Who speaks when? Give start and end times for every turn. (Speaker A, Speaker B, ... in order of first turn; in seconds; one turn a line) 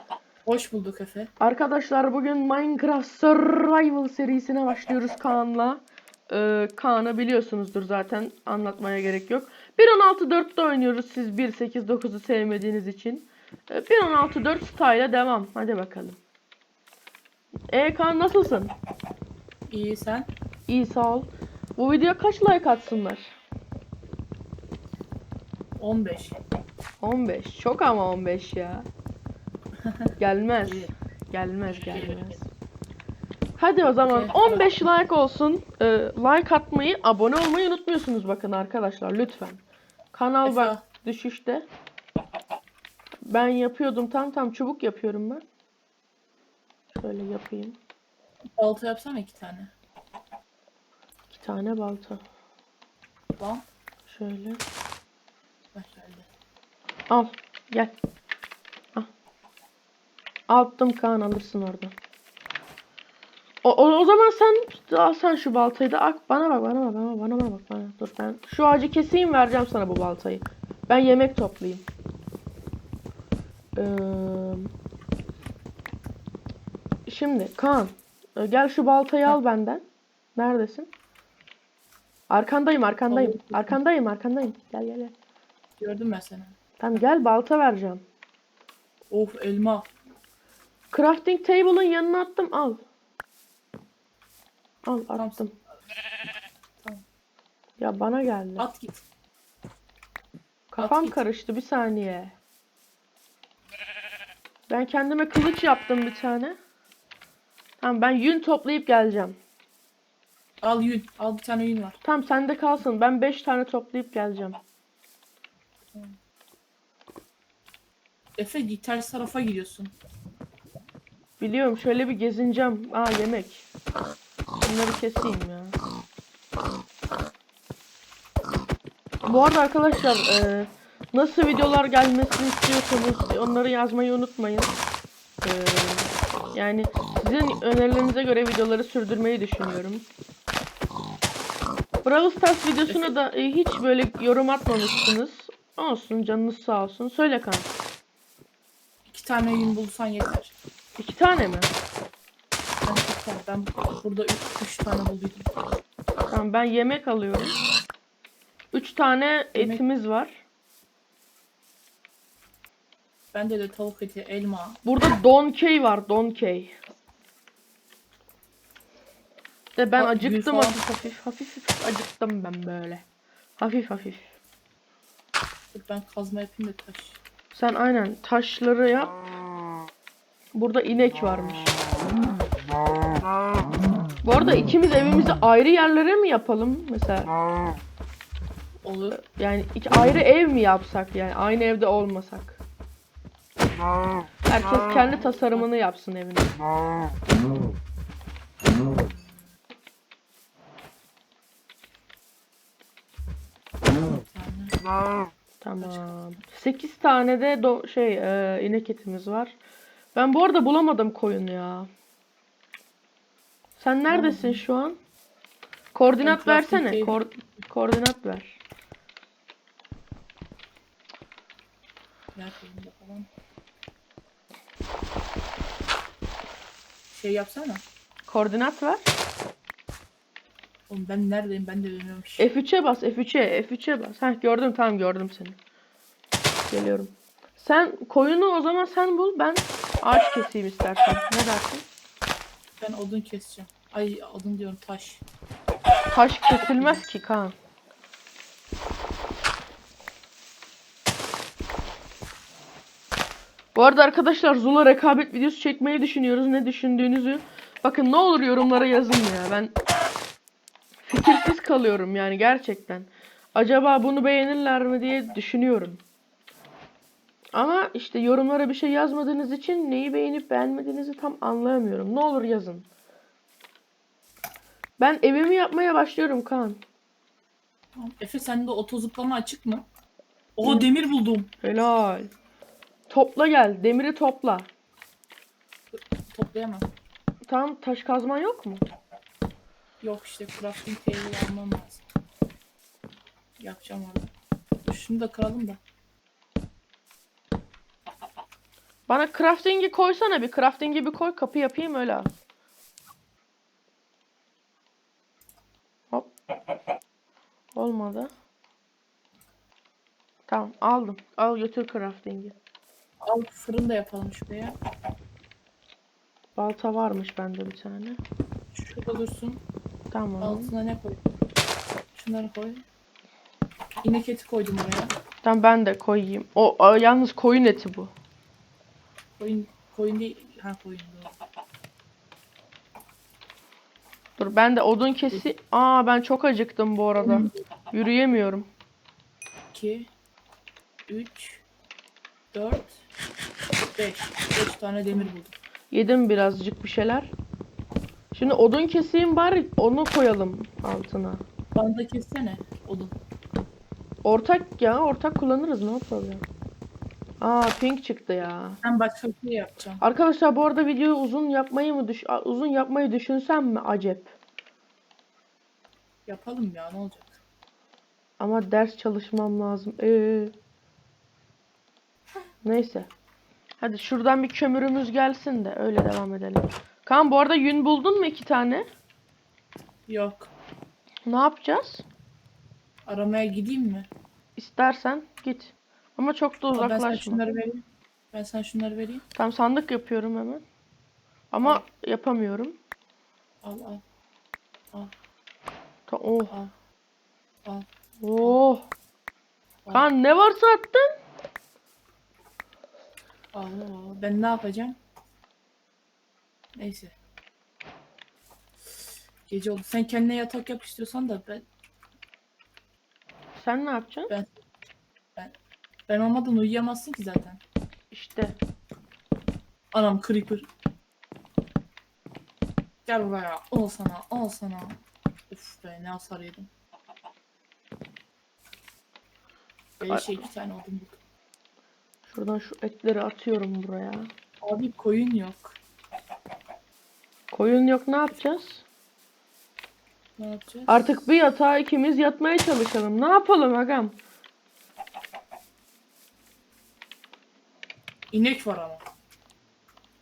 Speaker A: 0.5-1.3
Speaker B: 1.4-16.2
Speaker B: 17.7-18.7
Speaker A: 19.7-20.3
Speaker B: 20.7-23.3
Speaker A: 25.8-26.4
Speaker B: 27.0-28.9
Speaker B: 30.2-32.5
Speaker A: 31.9-32.2
Speaker B: 33.6-39.6
Speaker A: 34.1-34.7
Speaker B: 40.1-41.7
Speaker A: 40.4-40.8
Speaker B: 43.3-45.4
Speaker B: 47.0-47.8
Speaker A: 48.6-49.7
Speaker B: 51.3-52.2
Speaker A: 53.4-53.6
Speaker B: 54.1-54.6
Speaker A: 55.7-56.3
Speaker B: 57.1-57.9
Speaker B: 60.5-61.9
Speaker B: 63.6-71.9
Speaker B: 73.8-74.7
Speaker B: 77.1-79.8
Speaker B: 80.4-80.9
Speaker B: 82.3-85.1
Speaker A: 83.1-83.8
Speaker A: 85.8-86.6
Speaker B: 86.8-88.0
Speaker A: 89.1-89.9
Speaker B: 90.9-92.8
Speaker B: 94.8-95.5
Speaker A: 95.2-95.5
Speaker B: 97.8-98.7
Speaker A: 98.6-99.0
Speaker B: 100.7-102.3
Speaker A: 100.8-101.2
Speaker B: 104.7-106.6
Speaker B: 107.8-109.4
Speaker A: 110.6-112.0
Speaker B: 112.0-114.6
Speaker A: 118.4-119.9
Speaker B: 121.4-123.7
Speaker B: 124.6-125.8
Speaker B: 129.2-134.8
Speaker B: 135.4-140.1
Speaker B: 142.0-147.7
Speaker A: 142.9-143.1
Speaker A: 149.1-150.5
Speaker B: 151.0-151.7
Speaker A: 152.8-155.5
Speaker B: 156.3-157.6
Speaker B: 158.7-160.4
Speaker A: 159.6-159.8
Speaker A: 163.3-164.8
Speaker B: 164.8-166.8
Speaker B: 169.8-173.0
Speaker A: 170.0-170.8
Speaker B: 173.6-174.3
Speaker A: 175.7-177.2
Speaker B: 177.5-179.2
Speaker B: 180.5-181.7
Speaker B: 184.2-187.3
Speaker A: 188.8-189.2
Speaker B: 189.1-192.6
Speaker B: 194.5-196.6
Speaker A: 194.7-195.7
Speaker A: 204.1-204.8
Speaker B: 205.6-209.6
Speaker A: 205.8-206.0
Speaker B: 210.2-211.9
Speaker B: 213.8-215.0
Speaker A: 214.1-214.6
Speaker B: 215.9-218.6
Speaker A: 216.2-217.2
Speaker A: 222.3-223.3
Speaker A: 227.1-227.8
Speaker B: 228.3-229.1
Speaker A: 230.9-232.4
Speaker B: 232.4-235.6
Speaker B: 236.7-241.9
Speaker A: 242.8-245.2
Speaker B: 246.1-247.6
Speaker B: 253.8-259.8
Speaker B: 261.1-266.0
Speaker B: 267.5-272.9
Speaker B: 275.0-276.8
Speaker A: 278.0-279.9
Speaker A: 280.6-281.5
Speaker B: 281.6-282.3
Speaker B: 283.1-284.7
Speaker A: 285.9-286.9
Speaker B: 287.5-288.8
Speaker A: 290.0-292.0
Speaker A: 293.6-294.3
Speaker A: 294.9-295.8
Speaker B: 299.1-302.3
Speaker B: 307.8-308.3
Speaker B: 310.5-312.6
Speaker A: 313.2-314.8
Speaker B: 316.6-318.2
Speaker A: 318.7-319.6
Speaker B: 320.1-320.7
Speaker A: 320.4-321.2
Speaker A: 322.1-322.8
Speaker A: 324.0-325.1
Speaker B: 325.4-328.1
Speaker A: 329.4-331.4
Speaker B: 334.4-338.7
Speaker A: 337.2-337.5
Speaker A: 339.7-340.1
Speaker A: 341.1-341.6
Speaker A: 342.5-343.0
Speaker A: 343.9-345.6
Speaker B: 345.9-347.3
Speaker B: 348.3-351.4
Speaker A: 351.8-353.1
Speaker B: 354.2-356.4
Speaker B: 357.4-358.8
Speaker A: 358.8-360.0
Speaker B: 360.0-364.3
Speaker A: 366.3-367.4
Speaker B: 368.4-370.5
Speaker B: 372.6-373.1
Speaker B: 373.8-378.9
Speaker A: 380.1-380.5
Speaker B: 381.3-382.1
Speaker A: 383.1-384.1
Speaker B: 384.6-387.4
Speaker A: 386.8-389.2
Speaker B: 389.4-390.6
Speaker B: 391.5-392.8
Speaker A: 393.6-394.0
Speaker B: 396.1-396.5
Speaker B: 398.2-398.9
Speaker B: 399.9-401.1
Speaker A: 403.5-405.0
Speaker A: 406.8-407.1
Speaker A: 409.5-411.6
Speaker B: 413.6-414.3
Speaker A: 414.3-414.6
Speaker A: 416.1-417.6
Speaker B: 418.1-418.6
Speaker A: 419.9-420.7
Speaker A: 423.1-426.7
Speaker A: 430.0-431.2
Speaker B: 430.0-430.5
Speaker B: 432.3-434.3
Speaker A: 434.6-435.8
Speaker B: 437.5-438.8
Speaker A: 440.4-441.1
Speaker B: 440.9-444.2
Speaker A: 448.3-449.0